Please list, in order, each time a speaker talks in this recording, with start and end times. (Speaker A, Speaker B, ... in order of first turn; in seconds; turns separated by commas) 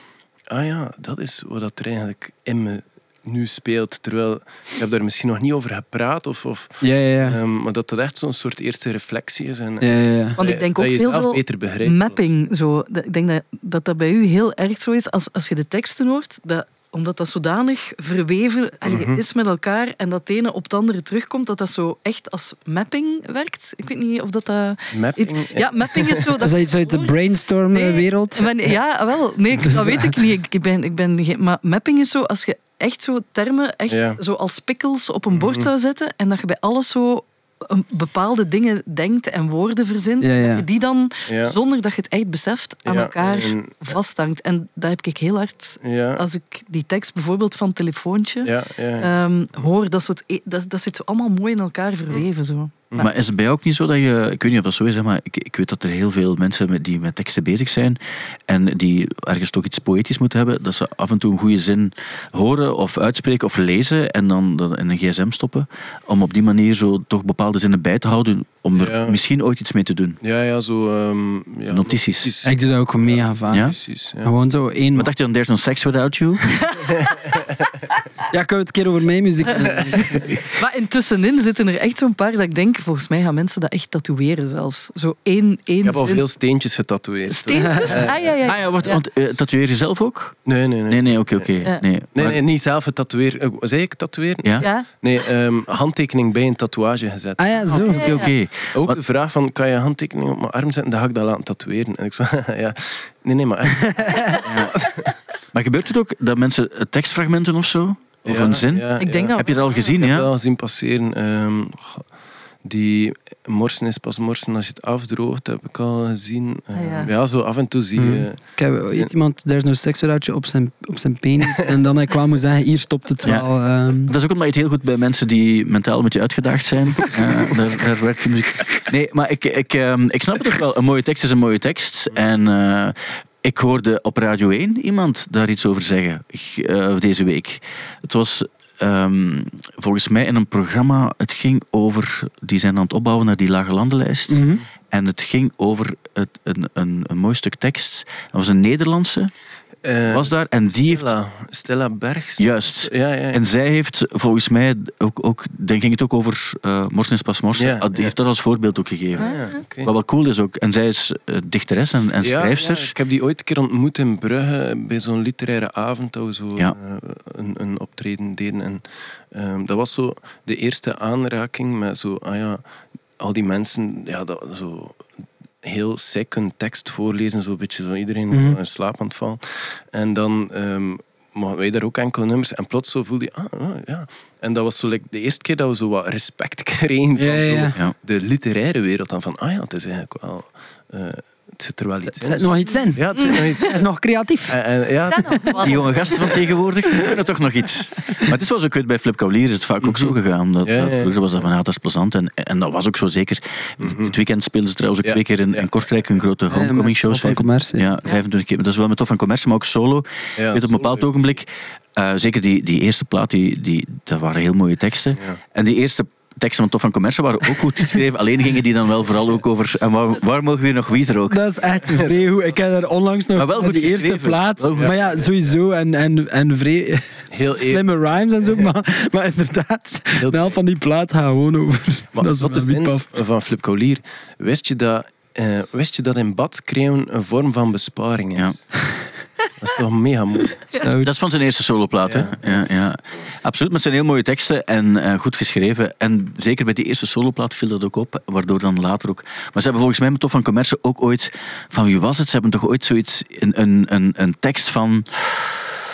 Speaker A: 0.5-12.3, Speaker B: 6.8-7.4, Speaker B: 9.8-10.4, Speaker C: 10.4-27.2, Speaker A: 18.9-19.2, Speaker A: 24.9-26.3, Speaker B: 26.4-28.5, Speaker C: 27.7-53.1, Speaker B: 29.6-30.1, Speaker A: 33.9-34.2, Speaker A: 35.3-35.7, Speaker B: 40.2-40.6, Speaker A: 41.3-41.6, Speaker A: 42.9-44.0, Speaker A: 45.8-46.2, Speaker A: 48.4-49.1, Speaker D: 53.0-70.2, Speaker A: 68.8-69.2, Speaker A: 70.2-74.3, Speaker D: 71.7-72.3, Speaker B: 72.4-73.7, Speaker D: 73.5-73.8, Speaker B: 74.2-75.1, Speaker D: 75.0-76.7, Speaker C: 76.7-77.1, Speaker A: 77.1-77.4, Speaker B: 78.3-80.2, Speaker A: 79.6-80.3, Speaker C: 80.5-86.2, Speaker A: 85.8-88.3, Speaker C: 87.3-89.0, Speaker B: 87.7-88.0, Speaker D: 88.1-92.4, Speaker A: 90.5-97.6, Speaker C: 94.6-94.9, Speaker B: 97.4-98.2, Speaker C: 97.7-98.3, Speaker D: 97.8-99.0, Speaker A: 98.7-105.2, Speaker D: 104.5-105.0, Speaker D: 105.5-110.3, Speaker A: 108.3-112.1, Speaker C: 109.0-110.0, Speaker A: 112.6-119.1, Speaker C: 116.7-117.1, Speaker B: 118.0-124.1, Speaker D: 123.2-123.5, Speaker D: 124.0-149.3, Speaker B: 144.3-144.7, Speaker A: 149.8-153.4, Speaker D: 150.1-151.1, Speaker D: 152.4-162.9, Speaker A: 157.6-158.1, Speaker A: 159.2-159.9, Speaker C: 159.2-159.6, Speaker A: 162.2-172.6, Speaker A: 173.2-175.1, Speaker A: 175.6-193.8, Speaker B: 178.3-178.6, Speaker B: 187.2-187.8, Speaker B: 192.1-194.6, Speaker C: 193.2-193.6, Speaker A: 194.5-195.9, Speaker C: 195.1-196.3, Speaker D: 195.6-221.4, Speaker A: 199.8-201.1, Speaker A: 203.8-204.2, Speaker A: 205.0-205.7, Speaker B: 206.5-207.9, Speaker A: 210.4-211.1, Speaker B: 221.3-233.1, Speaker D: 223.4-225.2, Speaker A: 224.7-225.3, Speaker A: 227.3-227.9, Speaker A: 230.2-230.6, Speaker A: 232.1-238.7, Speaker A: 239.6-240.8, Speaker B: 240.7-241.1, Speaker D: 241.0-255.8, Speaker A: 242.1-242.7